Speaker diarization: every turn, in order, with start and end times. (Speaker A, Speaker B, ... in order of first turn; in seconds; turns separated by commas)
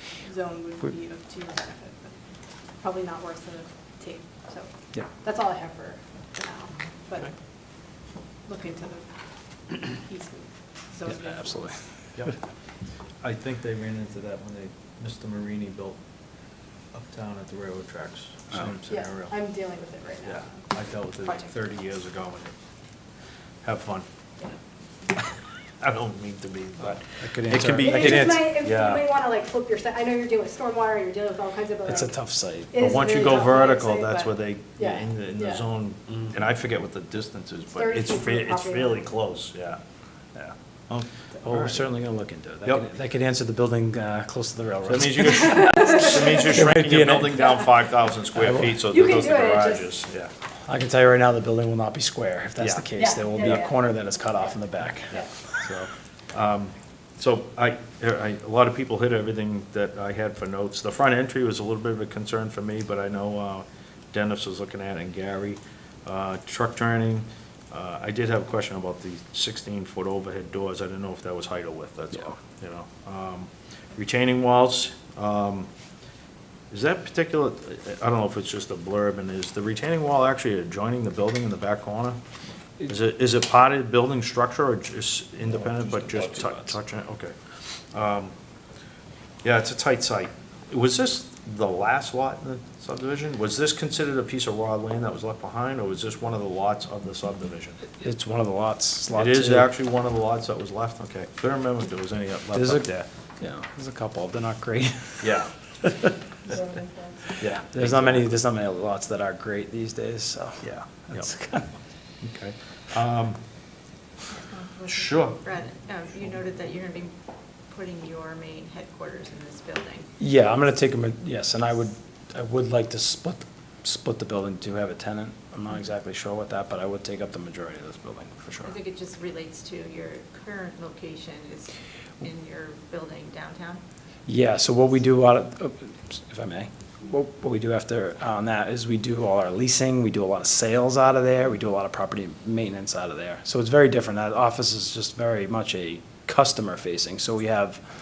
Speaker A: 0.2-2.1, Speaker A: 2.8-4.7, Speaker A: 5.2-7.3, Speaker A: 8.5-9.1, Speaker A: 9.9-11.4, Speaker B: 11.1-11.7, Speaker C: 13.2-16.0, Speaker C: 16.9-19.3, Speaker A: 18.9-20.4, Speaker C: 20.3-22.5, Speaker C: 23.6-24.1, Speaker C: 25.8-29.1, Speaker B: 27.2-28.4, Speaker A: 27.8-32.1, Speaker B: 31.9-33.1, Speaker A: 32.7-35.5, Speaker C: 32.8-39.8, Speaker A: 37.7-39.1, Speaker C: 40.4-41.8, Speaker B: 41.4-47.5, Speaker C: 44.9-50.3, Speaker B: 48.4-48.8, Speaker A: 48.9-49.9, Speaker B: 50.7-55.2, Speaker C: 52.6-52.9, Speaker A: 53.0-53.7, Speaker C: 55.6-75.7, Speaker C: 76.7-82.2, Speaker C: 82.9-87.3, Speaker B: 85.5-86.8, Speaker C: 87.9-88.3, Speaker C: 89.4-97.8, Speaker B: 98.0-99.7, Speaker C: 99.1-103.1, Speaker B: 102.5-102.9, Speaker B: 103.4-106.1, Speaker C: 105.2-105.5, Speaker C: 107.4-108.3, Speaker B: 107.4-111.7, Speaker C: 110.6-111.3, Speaker C: 112.2-113.4, Speaker D: 114.3-117.1, Speaker C: 114.9-115.5, Speaker D: 117.7-120.1, Speaker B: 120.2-128.8, Speaker D: 128.6-133.8, Speaker B: 134.3-147.8